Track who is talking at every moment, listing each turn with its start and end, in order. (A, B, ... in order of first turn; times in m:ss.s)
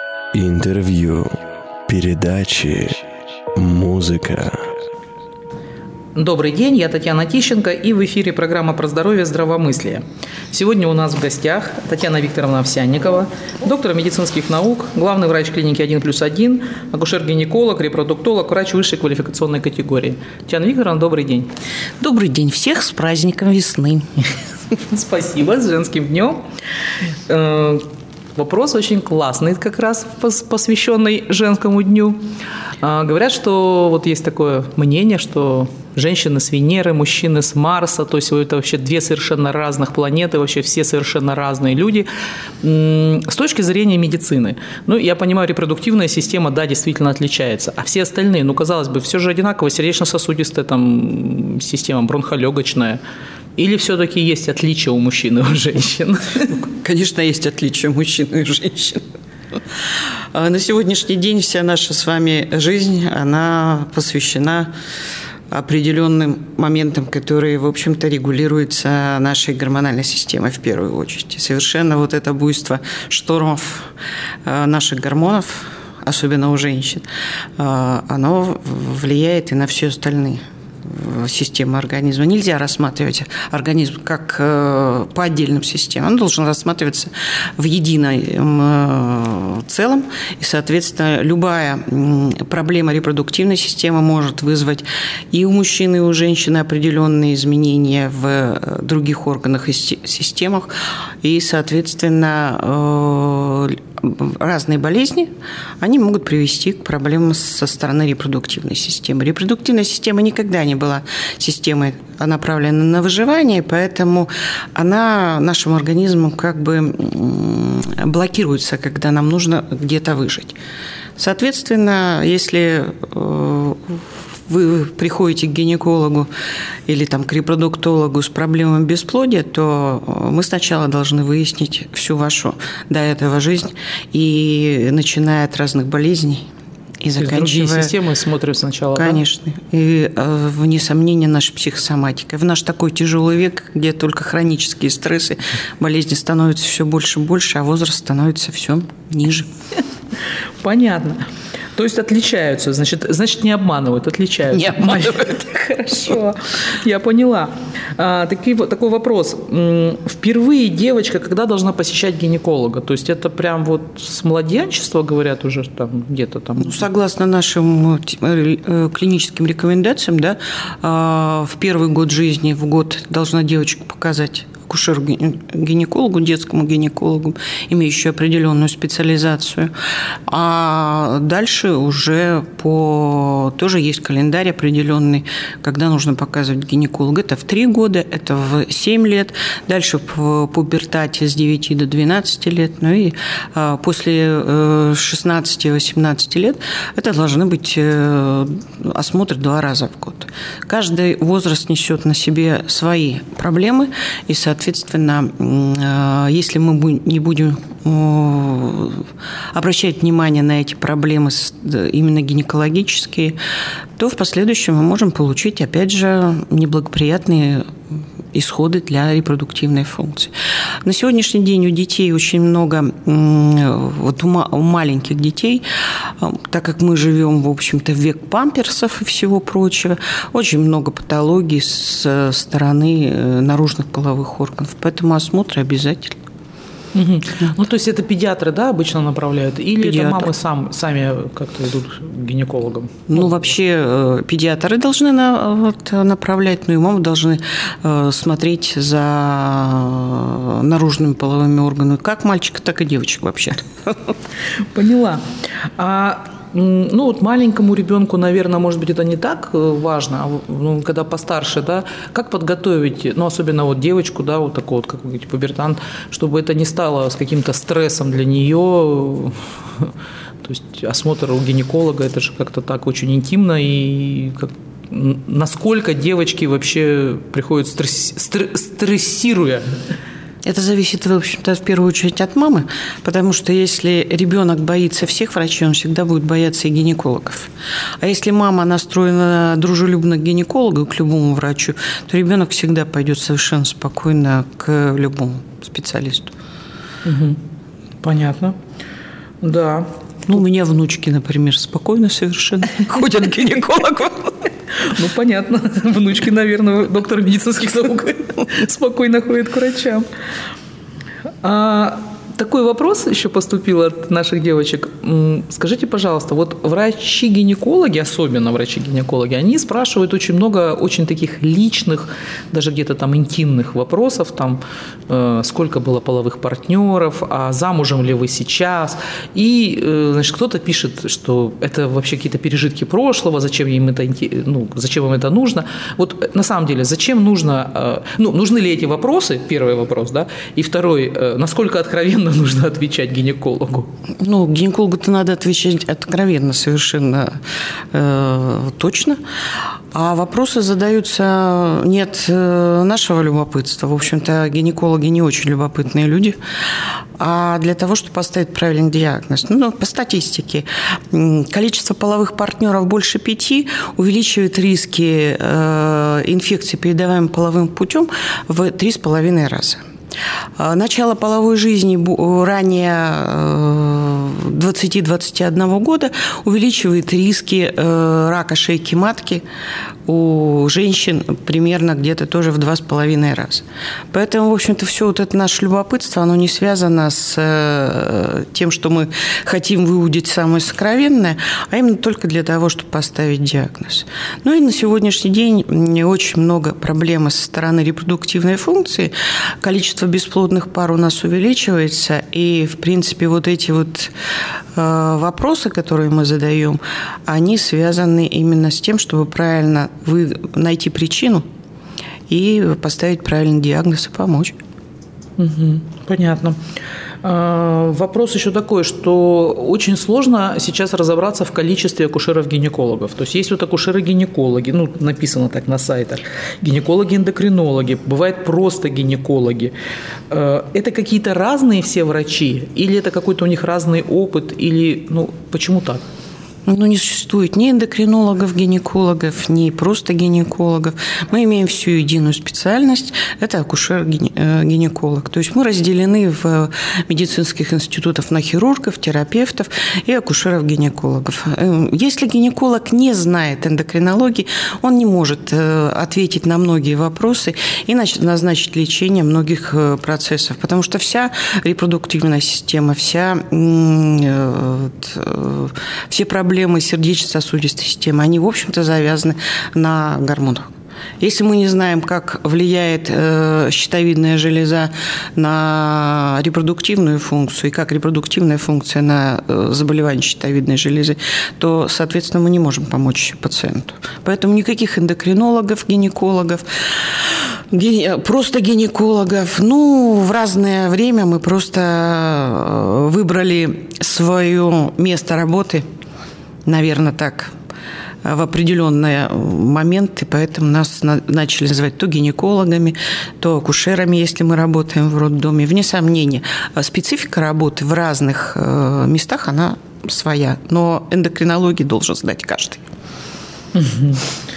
0:00.3-0:03.0 A
0:03.6-0:04.7 A
0:06.2-0:21.5 B
0:22.0-0:24.1 C
0:24.8-0:26.4 B
0:27.3-0:27.9 B
0:28.4-0:32.3 B
0:32.8-0:42.1 B
0:42.6-0:53.0 B
0:53.6-0:56.6 B
0:56.8-0:59.0 C
1:00.3-1:04.7 C
1:05.5-1:13.9 C
1:14.4-1:17.0 C
1:17.6-2:00.6 C
2:01.2-2:06.3 C
2:06.9-2:16.5 C
2:17.0-2:17.9 C
2:17.2-2:19.2 B
2:19.0-2:29.5 C
2:30.6-2:46.8 B
2:34.5-2:35.3 C
2:46.6-2:59.7 C
3:00.3-3:33.4 C
3:34.0-3:37.8 C
3:38.3-3:40.3 C
3:40.8-3:56.2 C
3:56.9-4:03.4 B
3:59.8-4:00.3 C
4:03.1-4:14.1 C
4:14.7-4:15.2 B
4:15.8-4:29.9 B
4:30.4-4:39.8 B
4:40.4-4:56.3 C
4:57.0-4:57.4 B
4:58.0-4:58.6 B
4:59.4-4:59.9 B
5:00.3-5:04.4 C
5:04.8-5:10.1 B
5:11.4-5:43.9 B
5:44.2-5:47.4 C
5:47.9-5:49.2 C
5:49.9-5:56.4 C
5:57.2-6:09.8 C
6:10.6-6:19.4 C
6:20.1-6:44.1 C
6:44.7-6:51.4 C
6:52.3-6:54.6 C
6:55.4-6:56.6 B
6:57.2-7:09.7 B
7:10.3-7:16.0 B
7:16.7-7:50.7 C
7:51.2-8:15.8 C
8:16.7-8:17.5 C
8:18.2-8:32.8 C
8:33.8-8:34.2 B